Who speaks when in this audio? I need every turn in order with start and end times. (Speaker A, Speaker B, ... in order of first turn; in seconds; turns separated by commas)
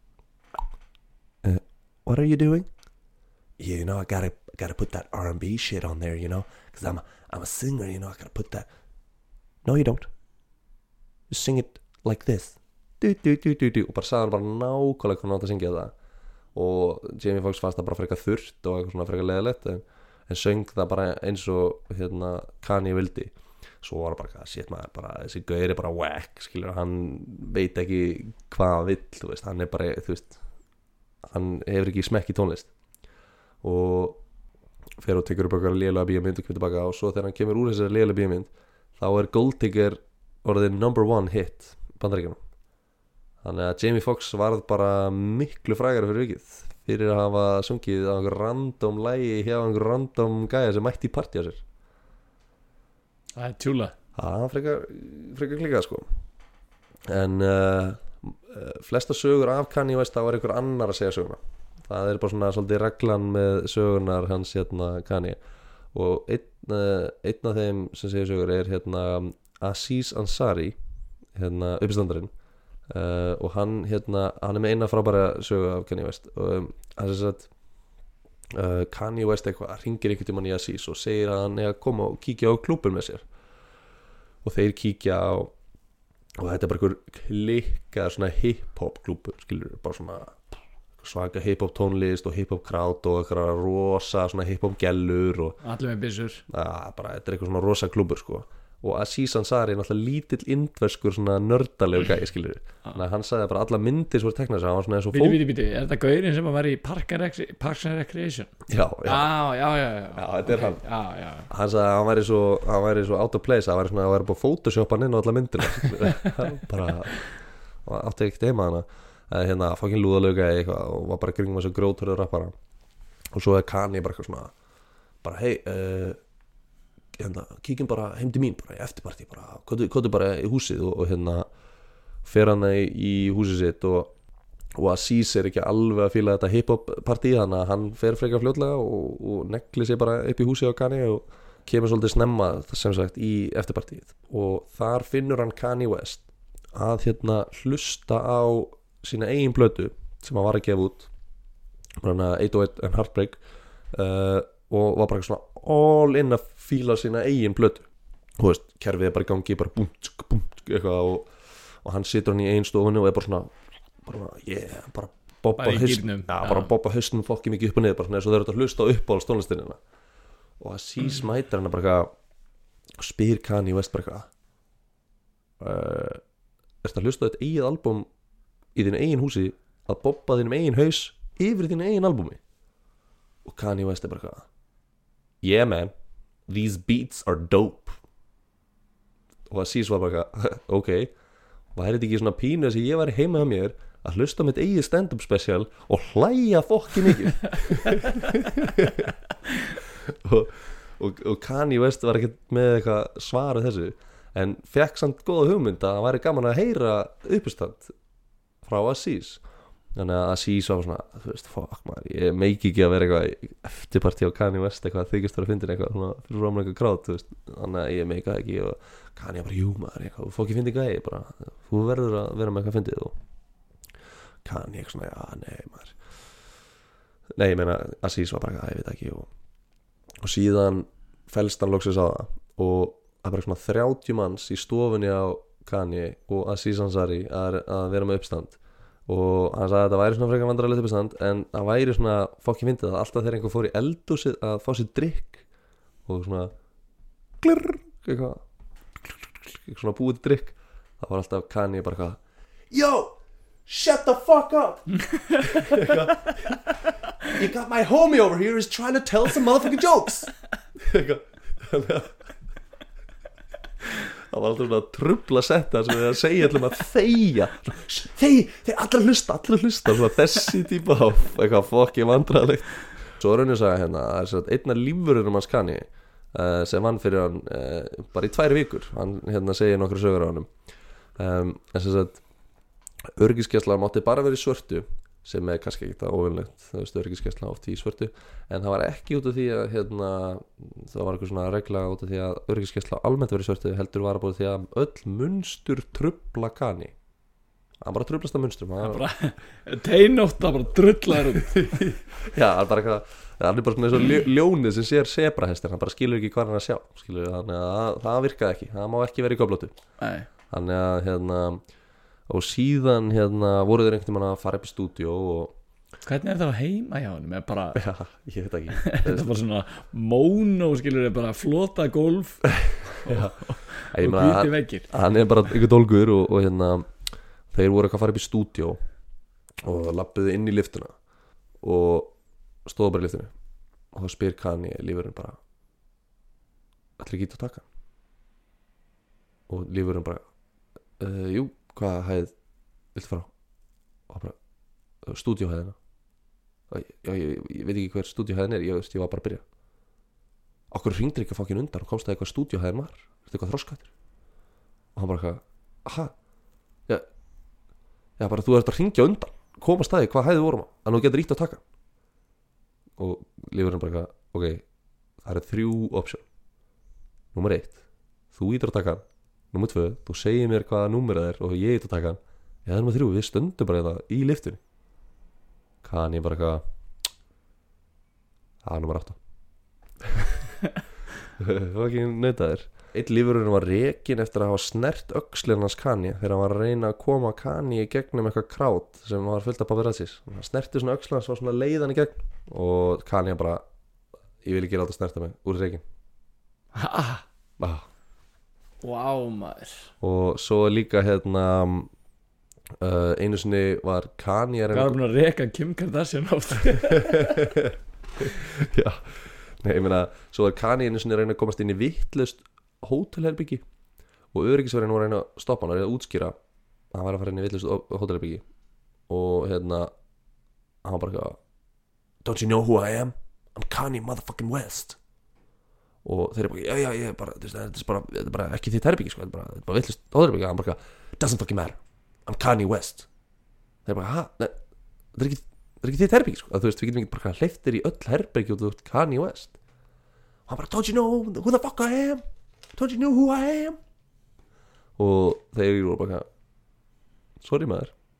Speaker A: 1.4-2.7, Speaker A: 3.6-8.7, Speaker A: 9.6-10.1, Speaker A: 11.3-15.9, Speaker A: 16.5-30.4, Speaker A: 31.2-32.7, Speaker A: 33.6-34.2, Speaker A: 35.0-42.4, Speaker A: 43.4-51.6, Speaker B: 53.4-53.9, Speaker A: 54.1-56.0, Speaker A: 57.1-65.4, Speaker A: 65.9-70.8, Speaker A: 71.3-72.3, Speaker A: 72.9-77.5, Speaker A: 78.5-83.2, Speaker A: 84.4-85.5, Speaker A: 86.4-95.6, Speaker B: 95.6-96.4, Speaker A: 96.5-105.4, Speaker B: 105.1-108.5, Speaker A: 108.7-109.4, Speaker B: 109.0-111.5, Speaker A: 110.1-110.8, Speaker A: 111.5-117.3, Speaker A: 117.8-122.5, Speaker A: 123.3-124.5, Speaker A: 125.2-126.2, Speaker A: 127.2-131.4, Speaker A: 132.2-134.1, Speaker A: 134.8-151.1, Speaker A: 152.0-153.4, Speaker A: 153.9-157.8, Speaker A: 158.4-161.3, Speaker A: 161.8-169.8, Speaker B: 165.5-166.7, Speaker A: 170.6-172.1, Speaker A: 173.0-174.3, Speaker A: 175.6-176.2, Speaker A: 176.8-178.1, Speaker A: 178.7-182.4, Speaker A: 183.4-184.5, Speaker A: 185.4-185.9, Speaker A: 186.5-188.0, Speaker A: 189.5-191.1, Speaker A: 191.7-199.2, Speaker A: 199.8-207.9, Speaker A: 208.6-209.4, Speaker A: 209.9-223.1, Speaker A: 224.4-226.0, Speaker A: 227.4-229.3, Speaker A: 230.2-245.4, Speaker A: 246.1-246.5, Speaker A: 247.4-248.4, Speaker A: 249.0-252.2, Speaker A: 252.7-253.1, Speaker A: 253.7-256.7, Speaker B: 254.9-256.0, Speaker A: 257.3-262.1, Speaker A: 264.1-280.5, Speaker A: 281.1-282.2, Speaker A: 283.1-296.9, Speaker A: 297.8-299.0, Speaker B: 298.8-301.9, Speaker A: 301.3-309.7, Speaker B: 310.0-310.3, Speaker A: 310.5-311.6, Speaker A: 312.3-315.5, Speaker B: 316.0-317.8, Speaker A: 317.7-319.3, Speaker B: 318.8-324.9, Speaker A: 322.6-323.4, Speaker A: 323.9-326.9, Speaker A: 327.5-328.8, Speaker A: 329.6-330.9, Speaker A: 331.6-332.1, Speaker A: 332.6-333.3, Speaker A: 333.9-335.4, Speaker A: 337.0-337.6, Speaker A: 339.5-340.2, Speaker A: 341.0-342.3, Speaker A: 342.9-343.3, Speaker A: 344.1-344.4, Speaker A: 345.0-345.8, Speaker A: 346.7-349.4, Speaker A: 350.7-353.9, Speaker A: 354.9-356.1, Speaker A: 358.2-361.6, Speaker A: 363.0-364.6, Speaker A: 365.2-366.2, Speaker A: 367.3-367.8, Speaker A: 368.3-374.6, Speaker A: 375.8-376.6, Speaker A: 378.6-379.2, Speaker A: 380.0-380.5, Speaker A: 381.4-393.6, Speaker A: 394.4-395.8, Speaker B: 396.7-397.2, Speaker A: 397.6-397.9, Speaker B: 398.8-399.9, Speaker A: 400.0-401.9, Speaker A: 402.8-405.0, Speaker B: 404.7-407.6, Speaker A: 406.7-413.6, Speaker A: 414.3-416.3, Speaker A: 416.9-418.4, Speaker A: 419.1-419.9, Speaker A: 420.8-421.4, Speaker A: 422.2-425.0, Speaker A: 426.0-433.1, Speaker A: 433.8-434.6, Speaker A: 435.1-439.5, Speaker A: 440.5-443.8, Speaker A: 445.0-446.3, Speaker A: 447.4-447.9